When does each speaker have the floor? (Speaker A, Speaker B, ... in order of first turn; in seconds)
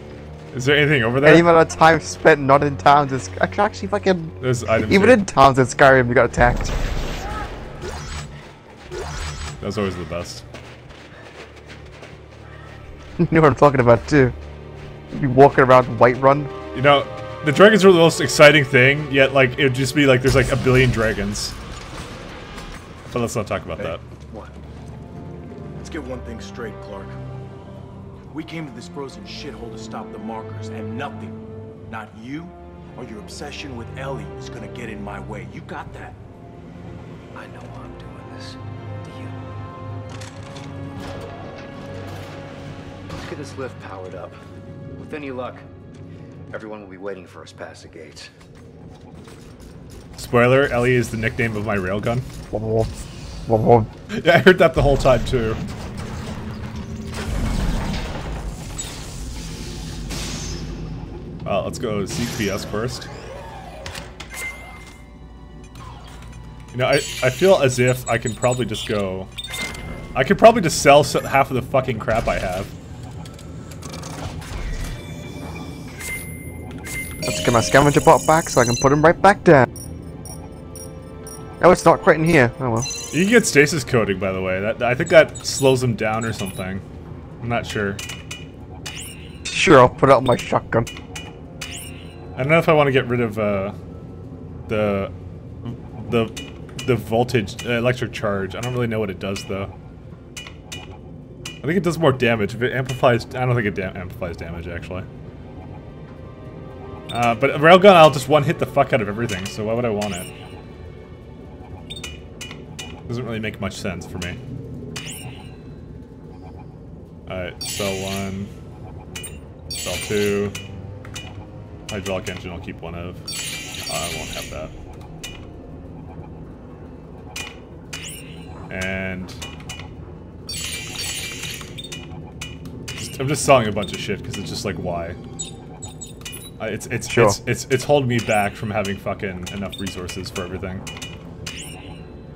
Speaker A: 0.5-1.5, 4.4-5.2, 9.6-10.4, 16.7-21.6, 23.1-24.0, 50.2-52.3, 54.1-55.6, 61.4-63.1, 66.7-69.3, 70.2-72.7, 83.1-86.8, 87.4-88.0, 92.4-93.8, 94.7-95.1, 95.6-99.7, 101.6-105.1, 107.1-110.3, 113.1-114.4, 117.3-118.5, 119.8-120.6, 121.9-123.2, 123.9-124.7, 128.7-129.4, 132.9-135.2, 136.6-140.8
Speaker B: 1.2-4.3, 4.9-6.7, 13.2-14.3, 15.1-16.5, 52.5-52.9, 53.5-53.9, 77.2-79.7, 81.6-82.9, 89.5-90.9, 137.1-137.4
Speaker C: 23.8-24.5, 37.4-39.4, 43.2-44.4, 45.0-45.7, 46.5-48.3
Speaker D: 25.8-27.2, 28.3-36.2